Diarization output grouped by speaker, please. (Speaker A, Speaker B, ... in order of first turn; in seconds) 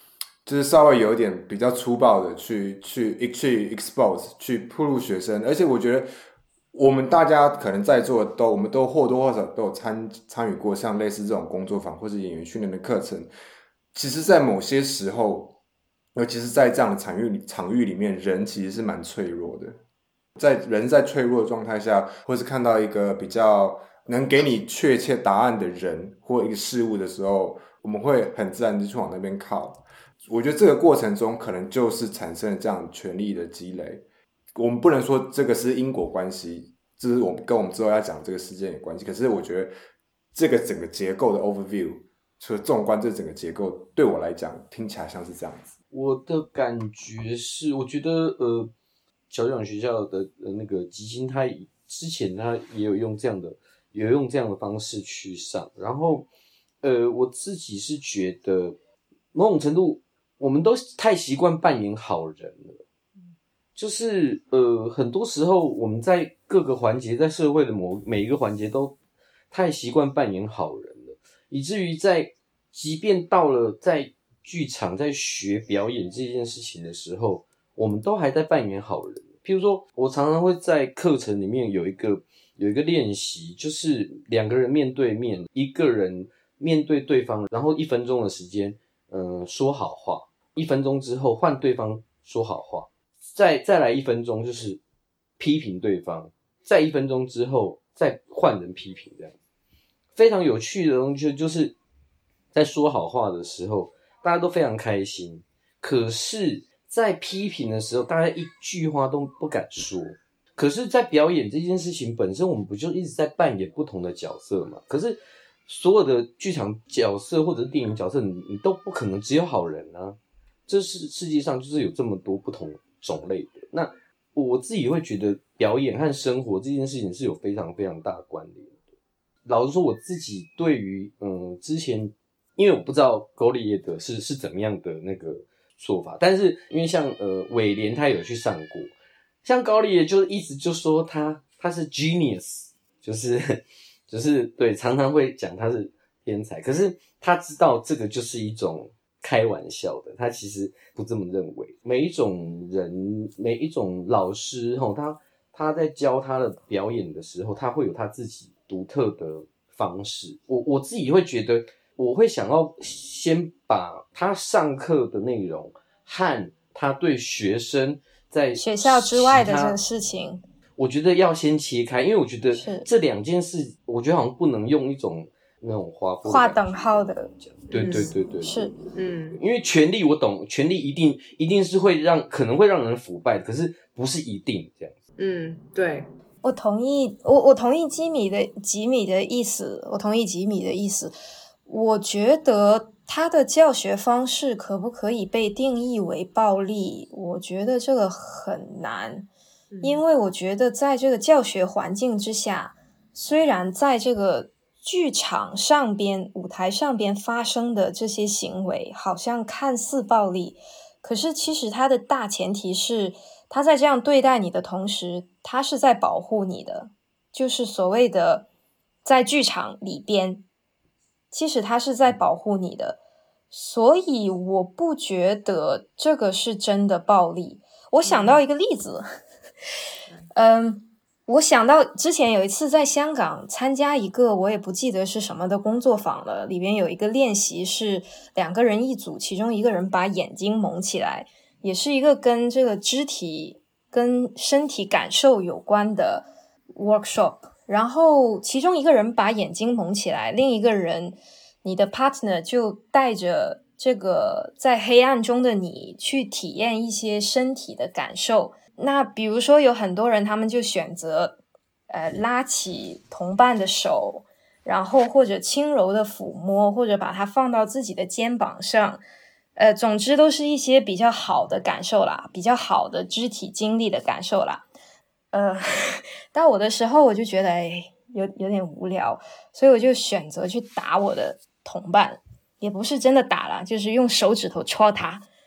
Speaker A: 0.5-6.1, 6.7-13.3, 13.9-15.6, 16.2-19.8, 20.4-34.0, 34.5-39.7, 40.4-45.7
Speaker B: 45.9-48.7, 49.3-56.3, 56.8-58.8, 59.3-62.8, 63.8-69.0, 69.5-94.8, 95.4-99.3, 100.2-101.8, 102.5-128.8, 129.4-138.9, 139.4-169.8, 170.8-178.6, 179.4-185.0
Speaker C: 168.6-170.4, 172.5-172.9, 176.2-177.3, 178.4-178.7, 186.4-191.1, 191.7-199.3, 199.8-218.5, 219.0-220.4, 221.3-223.0, 223.5-229.1, 230.3-261.4, 261.9-269.0, 269.6-274.6, 275.3-285.2
Speaker D: 177.7-178.1, 178.9-179.4, 185.2-186.1, 199.7-200.0, 228.0-228.4